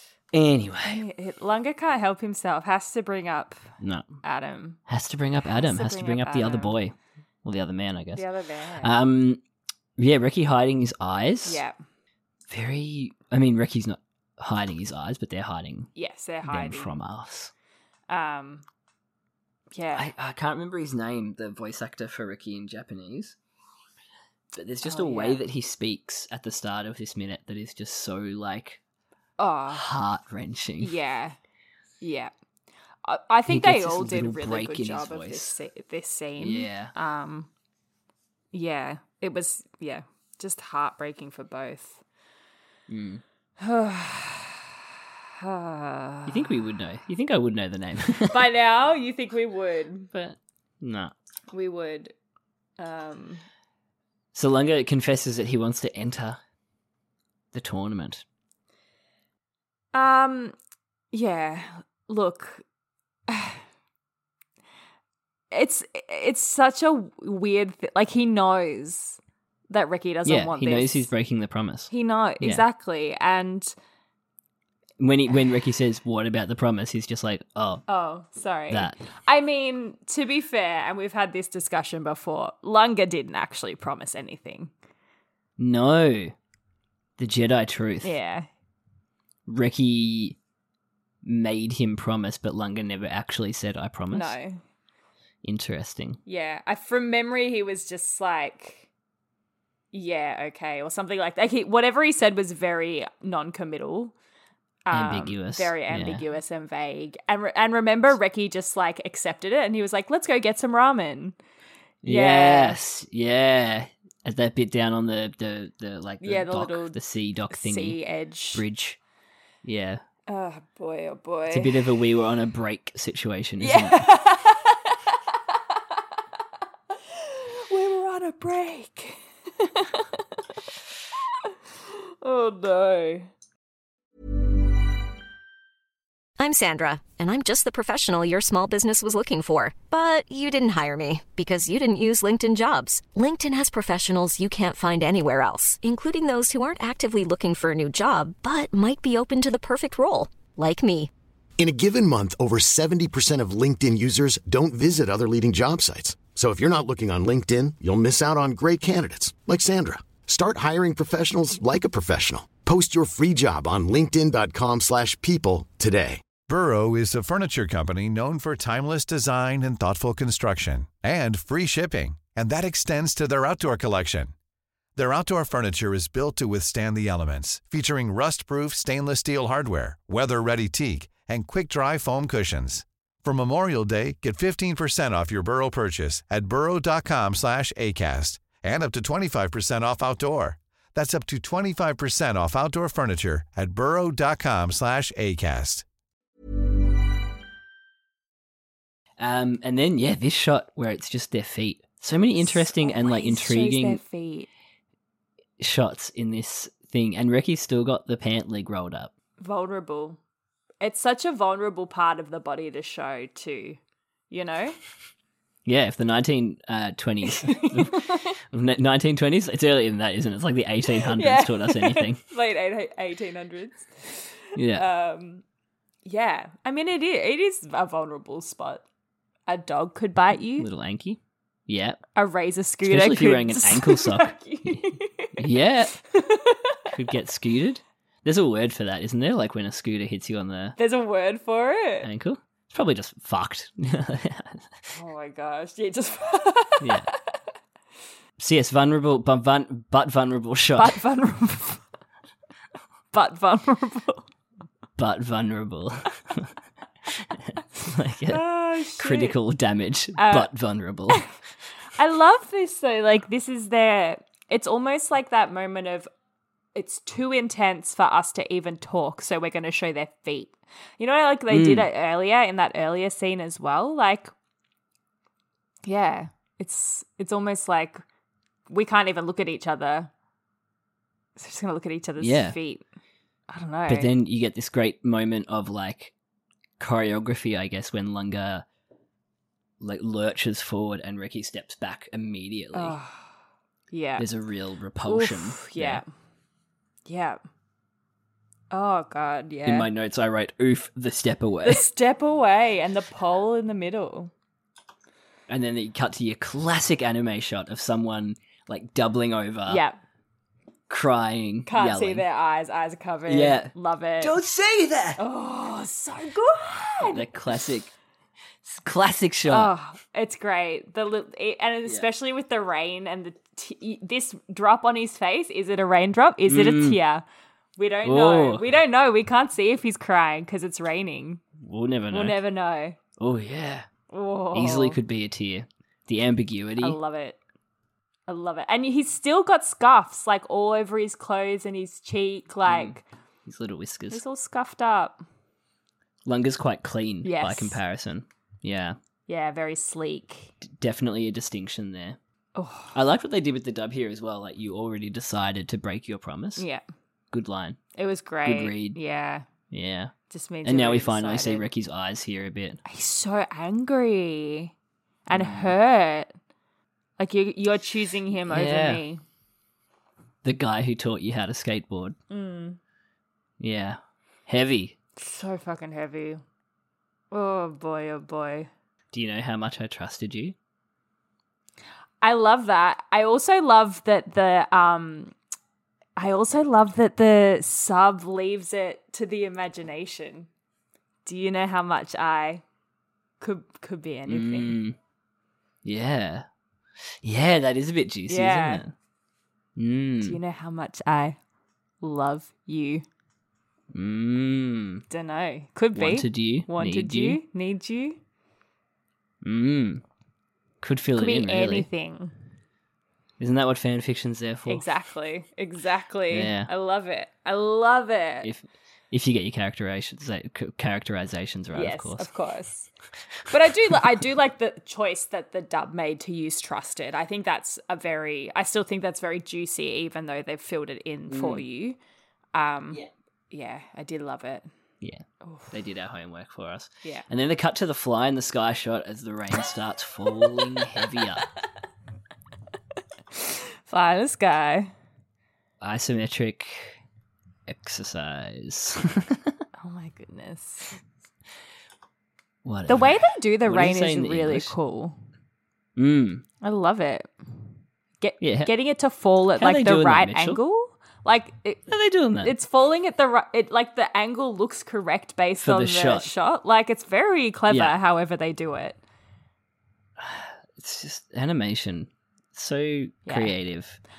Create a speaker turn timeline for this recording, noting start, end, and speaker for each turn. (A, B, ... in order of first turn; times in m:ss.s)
0:00.3-0:01.0 A
0:00.8-0:03.6 B
0:03.8-0:04.1 A
0:04.2-0:04.8 B
0:04.9-0:08.2 A
0:05.5-0:06.8 B
0:08.2-0:08.9 B
0:08.8-0:09.4 A
0:10.0-0:11.6 A
0:11.4-0:11.8 B
0:12.5-0:15.9 A
0:16.0-0:16.9 B
0:16.4-0:17.5 A
0:18.1-0:18.6 B
0:19.7-0:20.1 B
0:20.0-0:23.4 A
0:24.5-0:28.8 A
0:24.8-0:25.4 B
0:29.4-0:29.8 B
0:29.7-0:30.9 A
0:30.8-0:31.4 B
0:32.0-0:32.3 B
0:33.0-0:37.5 B
0:33.5-0:35.6 A
0:36.4-0:36.9 A
0:38.5-0:42.0 B
0:42.9-0:43.2 A
0:43.6-0:44.6 B
0:45.4-0:46.4 B
0:46.3-0:48.4 A
0:48.3-0:50.1 B
0:50.1-0:51.1 A
0:51.5-0:52.1 B
0:52.8-0:53.4 B
0:54.3-0:56.4 A
0:57.5-0:58.2 A
0:59.9-1:00.6 B
1:01.1-1:02.6 B
1:03.3-1:03.6 B
1:05.5-1:09.2 B
1:09.7-1:11.1 B
1:10.2-1:12.6 A
1:11.9-1:13.7 B
1:15.0-1:17.8 A
1:17.9-1:24.7 B
1:18.7-1:19.0 A
1:25.6-1:26.3 A
1:27.2-1:28.1 A
1:28.0-1:28.5 B
1:29.5-1:30.4 A
1:31.2-1:34.3 A
1:34.1-1:34.6 B
1:35.4-1:36.2 A
1:36.3-1:38.9 B
1:39.9-1:44.2 B
1:44.9-1:51.4 B
1:44.9-1:46.2 A
1:52.0-1:58.0 A
1:52.0-1:52.8 B
1:56.2-1:57.0 B
1:57.5-1:58.6 B
1:58.5-1:59.0 A
1:59.6-2:00.0 A
2:00.3-2:02.0 B
2:01.5-2:04.1 A
2:03.6-2:05.0 B
2:07.1-2:10.2 B
2:12.2-2:13.3 B
2:16.4-2:31.1 C
2:31.6-2:46.2 D
2:46.4-2:54.3 E
2:55.0-3:15.8 E
3:19.2-3:24.0 A
3:22.4-3:24.5 B
3:25.6-3:29.1 A
3:29.4-3:30.2 B
3:30.8-3:33.8 B
3:34.3-3:34.8 B
3:35.7-3:42.2 A
3:37.3-3:38.3 B
3:41.1-3:45.4 B
3:44.6-3:44.9 A
3:46.0-3:48.8 B
3:49.5-3:50.7 B
3:50.6-3:52.0 A
3:52.2-3:55.4 B
3:52.8-3:56.0 A
3:56.1-3:56.8 B
3:56.9-4:00.8 A
4:00.8-4:02.1 B
4:02.0-4:04.7 A
4:04.9-4:07.1 B
4:06.8-4:07.1 A
4:08.4-4:11.0 A
4:10.8-4:11.8 B
4:13.1-4:14.3 B
4:15.0-4:16.5 A
4:17.2-4:21.3 A
4:18.3-4:19.4 B
4:20.2-4:20.5 B
4:22.0-4:26.1 B
4:26.8-4:34.3 B
4:31.5-4:31.9 A
4:35.9-4:38.0 B
4:38.7-4:40.1 B
4:41.4-4:42.8 B
4:42.2-4:42.6 A
4:43.5-4:44.1 B
4:43.9-4:46.1 A
4:46.8-4:48.6 A
4:49.8-4:53.0 A
4:52.7-4:53.2 B
4:53.9-4:54.3 B
4:54.2-4:56.0 A
4:55.0-4:56.1 B
4:57.1-4:57.4 B
4:58.7-4:59.9 B
4:59.6-5:01.8 A
5:01.6-5:04.3 B
5:05.5-5:09.8 A
5:09.7-5:10.0 B
5:10.9-5:12.2 A
5:11.7-5:14.4 B
5:13.3-5:15.2 A
5:15.2-5:17.3 B
5:17.0-5:17.9 A
5:18.6-5:19.7 A
5:19.5-5:27.2 B
5:26.5-5:27.0 A
5:27.8-5:31.4 B
5:28.0-5:28.6 A
5:31.6-5:32.4 A
5:32.1-5:33.0 B
5:33.2-5:33.9 A
5:34.1-5:35.0 B
5:34.5-5:37.0 A
5:36.8-5:37.4 B
5:38.3-5:43.0 B
5:42.7-5:42.9 A
5:43.4-5:44.2 A
5:44.1-5:45.2 B
5:46.3-5:49.0 A
5:47.2-5:47.8 B
5:49.3-5:50.5 B
5:50.6-5:52.2 A
5:52.6-5:53.0 B
5:52.9-5:56.6 A
5:56.6-5:56.8 B
5:57.3-5:57.8 A
5:58.0-5:59.5 B
5:58.4-5:59.0 A
5:59.7-6:00.1 A
6:00.3-6:01.7 B
6:00.6-6:02.8 A
6:02.8-6:04.7 B
6:05.3-6:06.3 B
6:05.3-6:05.7 A
6:07.2-6:09.2 B
6:08.5-6:09.0 A
6:10.4-6:12.2 A
6:12.3-6:12.8 B
6:13.6-6:15.0 A
6:15.2-6:16.4 B
6:17.3-6:18.7 B
6:19.1-6:20.6 A
6:22.2-6:25.4 B
6:26.2-6:30.5 B
6:31.2-6:32.6 B
6:33.4-6:34.8 B
6:34.3-6:35.0 A
6:35.8-6:36.5 A
6:37.2-6:38.9 A
6:38.3-6:38.8 B
6:39.8-6:40.4 A
6:40.2-6:41.4 B
6:42.0-6:43.0 B
6:43.9-6:45.0 A
6:45.1-6:48.2 B
6:46.0-6:47.4 A
6:49.4-6:50.0 A
6:50.8-6:51.9 A
6:51.2-6:52.3 B
6:53.4-6:54.9 A
6:54.7-6:58.5 B
6:56.3-6:56.7 A
6:58.4-7:02.3 A
7:01.7-7:02.9 B
7:03.5-7:12.0 B
7:11.3-7:11.6 A
7:12.5-7:14.7 B
7:15.0-7:21.5 A
7:15.4-7:15.7 B
7:23.3-7:24.9 B
7:25.8-7:27.0 A
7:27.7-7:29.6 A
7:29.8-7:31.0 B
7:32.6-7:34.8 A
7:32.9-7:35.2 B
7:36.0-7:36.4 A
7:36.6-7:37.3 B
7:38.2-7:49.0 B
7:38.4-7:38.7 A
7:39.6-7:40.6 A
7:41.9-7:42.5 A
7:45.6-7:46.3 A
7:47.7-7:48.0 A
7:50.2-7:54.0 A
7:53.3-7:53.6 B